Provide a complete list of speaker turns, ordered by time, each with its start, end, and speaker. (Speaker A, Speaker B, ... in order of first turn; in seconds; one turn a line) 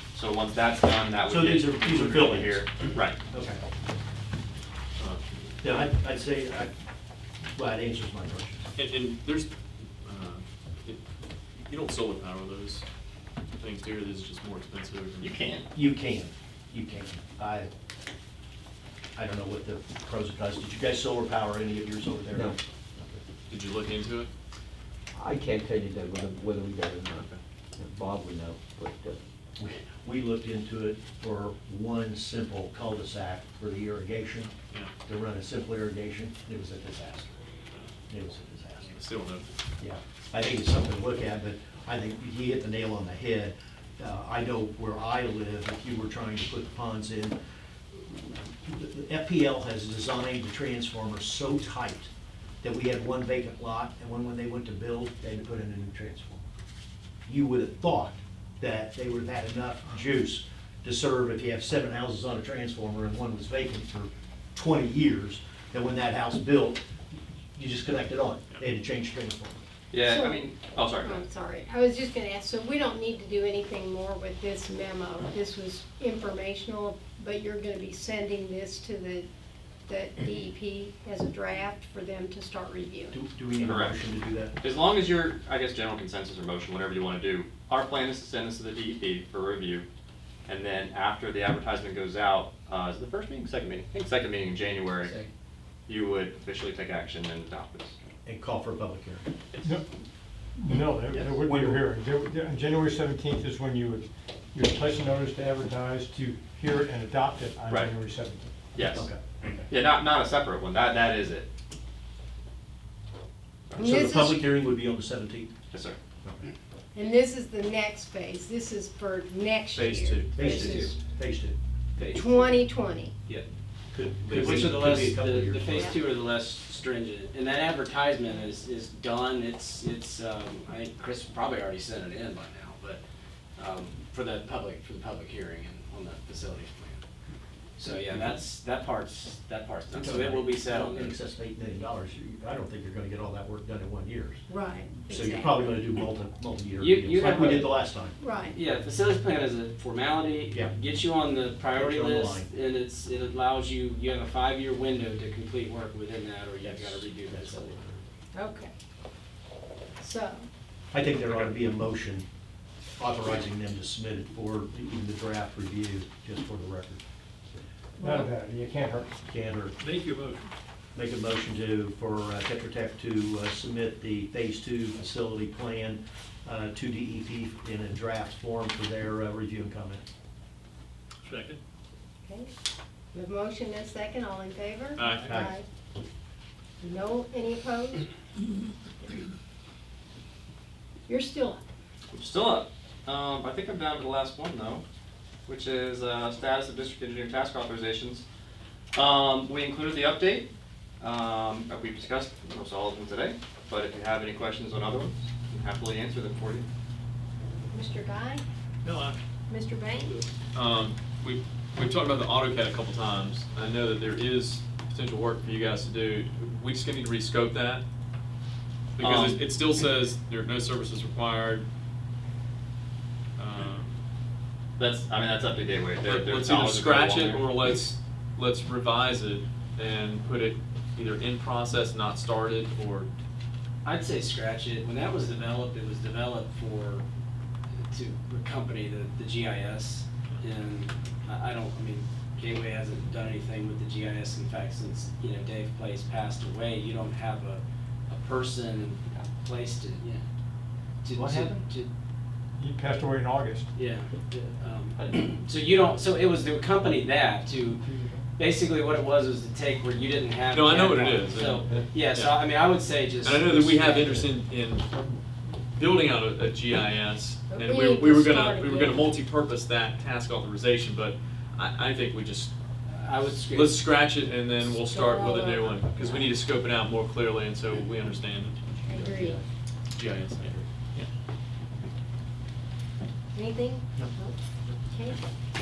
Speaker A: 0.1-3.2
Speaker B: 1.3-2.7
Speaker B: 3.3-3.6
Speaker C: 5.0-5.2
Speaker B: 5.6-6.7
Speaker B: 7.5-8.7
Speaker C: 8.8-9.5
Speaker C: 10.0-11.0
Speaker C: 11.6-12.8
Speaker C: 13.6-15.4
Speaker A: 15.2-15.7
Speaker B: 15.7-17.7
Speaker B: 19.1-23.2
Speaker C: 23.5-24.3
Speaker D: 25.1-29.2
Speaker B: 29.6-34.5
Speaker B: 35.0-37.4
Speaker B: 38.1-38.9
Speaker C: 38.8-39.5
Speaker B: 39.8-47.4
Speaker B: 47.9-52.1
Speaker B: 52.6-56.4
Speaker B: 57.3-69.6
Speaker A: 69.9-71.2
Speaker E: 70.0-70.5
Speaker E: 71.0-79.2
Speaker E: 79.9-83.1
Speaker B: 83.1-84.5
Speaker A: 83.6-84.0
Speaker A: 84.6-89.8
Speaker A: 90.5-95.2
Speaker A: 95.9-97.9
Speaker B: 98.2-99.2
Speaker F: 100.5-108.5
Speaker B: 101.4-101.8
Speaker A: 108.7-109.1
Speaker B: 108.8-109.6
Speaker A: 109.7-111.5
Speaker A: 113.7-114.0
Speaker E: 113.8-114.4
Speaker B: 113.8-115.5
Speaker A: 115.7-116.0
Speaker E: 116.9-121.0
Speaker C: 119.7-120.6
Speaker B: 120.3-121.5
Speaker G: 120.5-120.9
Speaker G: 122.0-122.7
Speaker E: 122.1-123.1
Speaker B: 123.9-125.9
Speaker C: 124.2-124.8
Speaker G: 124.3-133.0
Speaker G: 133.6-137.0
Speaker G: 137.8-141.1
Speaker B: 139.9-144.4
Speaker E: 144.5-145.6
Speaker B: 145.1-148.1
Speaker G: 146.8-147.8
Speaker E: 148.2-148.6
Speaker G: 148.5-157.7
Speaker B: 150.5-150.8
Speaker B: 151.7-152.5
Speaker B: 156.7-158.0
Speaker E: 158.3-158.7
Speaker E: 160.0-160.4
Speaker B: 160.9-162.2
Speaker B: 163.0-167.0
Speaker E: 168.0-168.3
Speaker F: 168.0-169.1
Speaker B: 169.3-169.8
Speaker C: 170.1-170.4
Speaker B: 170.9-180.0
Speaker E: 183.1-185.6
Speaker C: 185.0-185.3
Speaker B: 185.2-185.5
Speaker E: 186.8-188.1
Speaker E: 191.1-191.6
Speaker A: 192.1-194.8
Speaker A: 195.5-198.2
Speaker A: 198.9-200.5
Speaker A: 201.0-206.7
Speaker E: 207.7-208.4
Speaker E: 209.5-210.2
Speaker C: 210.5-217.8
Speaker C: 219.0-221.7
Speaker A: 219.0-219.4
Speaker C: 223.4-223.9
Speaker A: 224.8-227.4
Speaker C: 226.0-233.1
Speaker G: 233.8-237.0
Speaker G: 237.9-250.2
Speaker G: 251.0-251.9
Speaker B: 251.1-251.6
Speaker F: 252.6-253.7
Speaker G: 253.7-257.8
Speaker F: 257.8-258.2
Speaker G: 258.4-264.3
Speaker C: 260.5-262.5
Speaker F: 261.6-261.9
Speaker C: 263.2-264.9
Speaker F: 264.9-265.2
Speaker C: 265.7-272.5
Speaker E: 267.5-269.1
Speaker G: 272.9-273.8
Speaker C: 273.5-278.6
Speaker E: 274.7-275.9
Speaker E: 278.8-279.4
Speaker D: 278.9-279.4
Speaker C: 279.9-281.1
Speaker E: 283.3-285.2